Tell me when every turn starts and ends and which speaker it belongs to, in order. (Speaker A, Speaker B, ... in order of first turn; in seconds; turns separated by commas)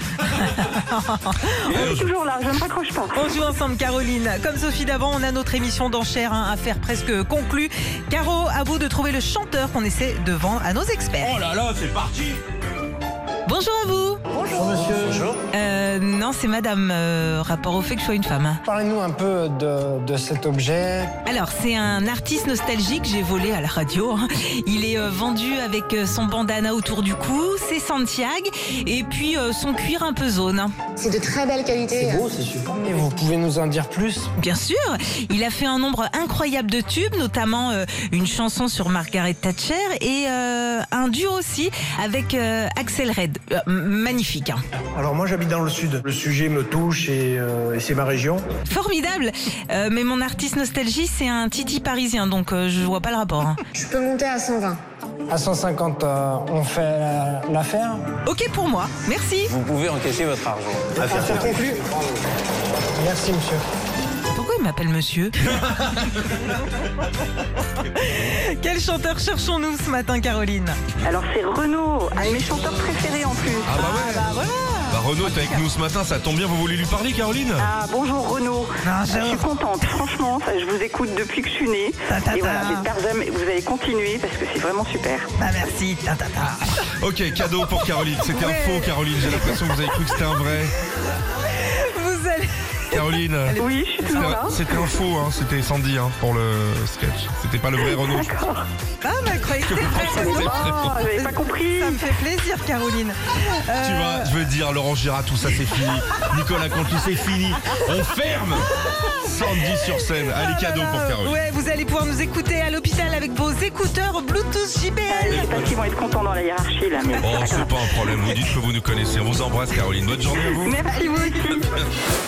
Speaker A: 0.3-1.8, Speaker B: 1.6-3.2, Speaker C: 1.7-2.1, Speaker A: 3.1-11.4, Speaker C: 11.2-12.3, Speaker A: 13.4-14.2, Speaker D: 14.5-15.2, Speaker A: 15.5-18.6, Speaker D: 18.6-21.1, Speaker A: 21.2-30.7, Speaker E: 31.0-32.3, Speaker D: 31.9-34.3, Speaker A: 34.4-44.6, Speaker F: 44.9-48.5, Speaker A: 48.7-53.6, Speaker E: 53.7-54.8, Speaker D: 55.3-58.0, Speaker A: 58.2-59.5, Speaker G: 59.5-61.6, Speaker E: 61.0-61.8, Speaker D: 61.3-61.7, Speaker D: 62.9-63.6, Speaker A: 64.3-65.5, Speaker A: 68.0-70.8, Speaker B: 71.0-73.8, Speaker C: 73.7-74.3, Speaker A: 73.7-75.6, Speaker C: 74.9-77.7, Speaker B: 77.6-85.3, Speaker A: 78.8-79.5, Speaker A: 82.1-82.9, Speaker A: 85.4-86.8, Speaker C: 87.0-90.7, Speaker A: 88.3-89.6, Speaker A: 91.6-94.5, Speaker C: 92.9-98.3, Speaker B: 93.6-94.6, Speaker B: 97.8-98.7, Speaker A: 99.0-104.3, Speaker C: 99.6-101.0, Speaker B: 100.0-102.0, Speaker C: 103.8-111.4, Speaker A: 110.3-115.5, Speaker B: 115.1-117.8, Speaker C: 115.3-115.8, Speaker C: 117.2-120.8, Speaker B: 120.6-121.7